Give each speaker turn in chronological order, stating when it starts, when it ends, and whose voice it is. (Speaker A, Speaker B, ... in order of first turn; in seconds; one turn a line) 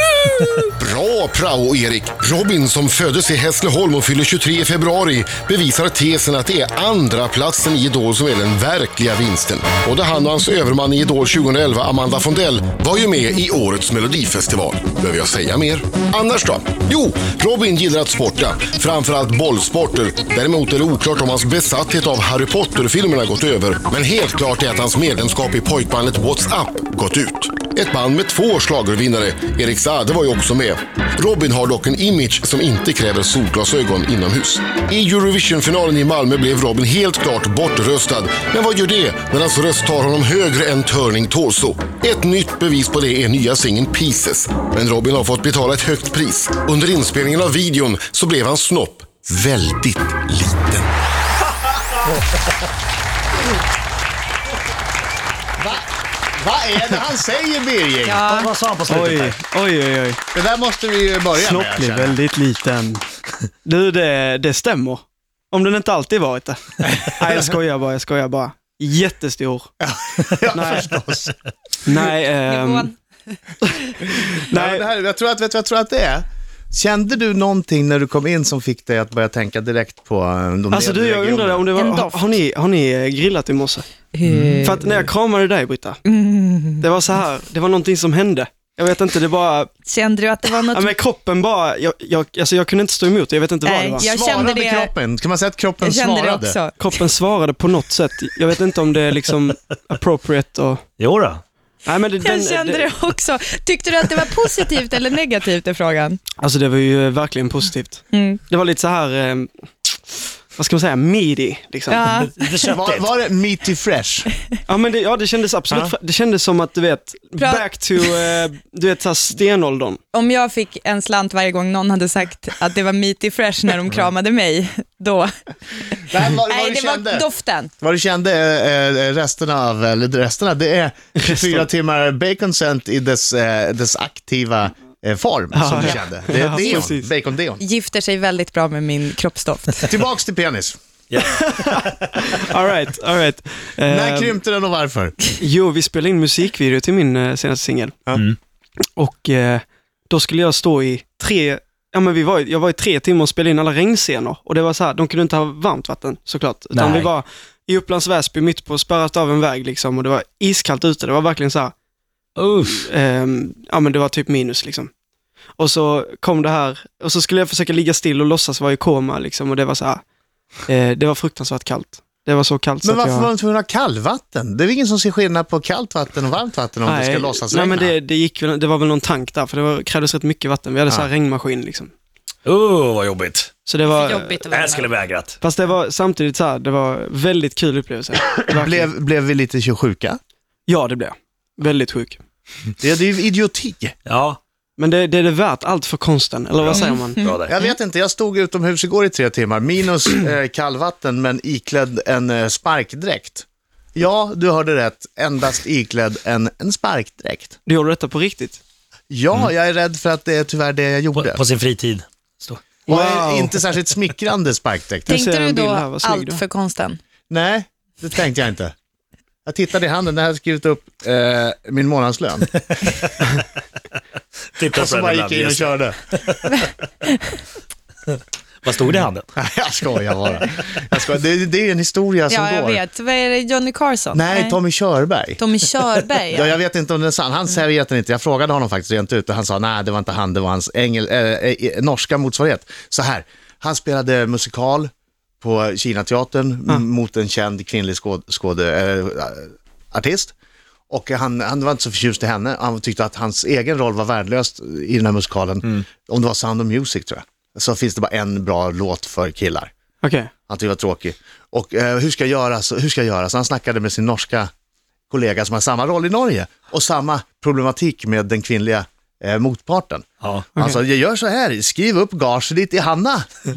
Speaker A: 0.8-50.9
Speaker B: 55.6-58.2
Speaker C: 58.0-58.5
Speaker D: 58.3-59.4
Speaker E: 58.9-60.2
Speaker B: 60.3-62.2
Speaker E: 61.3-69.7
Speaker B: 69.8-71.4
Speaker E: 70.5-70.9
Speaker E: 71.8-72.9
Speaker C: 72.3-73.7
Speaker E: 73.6-74.9
Speaker B: 74.5-81.7
Speaker E: 80.7-83.9
Speaker C: 81.8-82.3
Speaker C: 84.1-85.1
Speaker D: 84.2-84.7
Speaker E: 84.6-86.0
Speaker C: 86.0-86.8
Speaker E: 86.8-89.7
Speaker C: 89.8-91.0
Speaker E: 90.7-94.1
Speaker C: 93.6-94.9
Speaker B: 94.0-96.6
Speaker C: 95.8-96.9
Speaker E: 96.8-100.8
Speaker D: 101.0-101.4
Speaker E: 101.9-103.0
Speaker C: 102.2-106.2
Speaker E: 106.4-112.0
Speaker C: 108.1-108.4
Speaker C: 111.9-112.7
Speaker D: 112.2-113.1
Speaker B: 112.7-114.3
Speaker E: 114.7-120.0
Speaker C: 117.4-118.4
Speaker C: 120.1-127.7
Speaker B: 126.1-127.2
Speaker B: 127.8-137.6
Speaker E: 131.2-131.7
Speaker E: 135.5-137.1
Speaker C: 136.5-136.9
Speaker C: 137.6-139.9
Speaker B: 139.9-140.8
Speaker D: 141.1-142.3
Speaker E: 141.2-144.4
Speaker B: 143.9-145.2
Speaker E: 145.4-148.0
Speaker E: 149.0-161.7
Speaker D: 156.7-157.1
Speaker D: 162.4-162.9
Speaker E: 162.7-164.9
Speaker E: 165.6-170.0
Speaker E: 170.7-173.3
Speaker B: 172.8-177.9
Speaker E: 176.8-181.9
Speaker D: 182.5-183.5
Speaker E: 183.7-184.7
Speaker C: 183.9-184.9
Speaker D: 184.5-185.4
Speaker E: 185.4-188.9
Speaker B: 188.5-190.2
Speaker E: 190.7-192.2
Speaker B: 192.8-194.0
Speaker D: 194.1-194.4
Speaker E: 194.8-197.2
Speaker D: 196.6-197.5
Speaker B: 197.5-207.6
Speaker E: 207.7-208.6
Speaker B: 209.1-211.4
Speaker D: 211.2-212.6
Speaker E: 212.9-213.6
Speaker B: 212.9-215.1
Speaker E: 215.1-216.4
Speaker C: 215.1-217.0
Speaker B: 217.3-218.7
Speaker B: 219.5-222.5
Speaker D: 222.7-223.1
Speaker D: 224.6-226.7
Speaker B: 224.7-226.0
Speaker D: 228.6-229.3
Speaker B: 229.3-232.8
Speaker C: 232.3-234.6
Speaker B: 234.1-235.4
Speaker C: 235.4-236.6
Speaker B: 236.3-244.9
Speaker B: 245.4-250.3
Speaker B: 250.9-259.7
Speaker E: 260.0-260.3
Speaker B: 260.5-264.5
Speaker B: 265.1-270.0
Speaker D: 270.2-270.5
Speaker E: 270.5-270.8
Speaker B: 270.6-273.2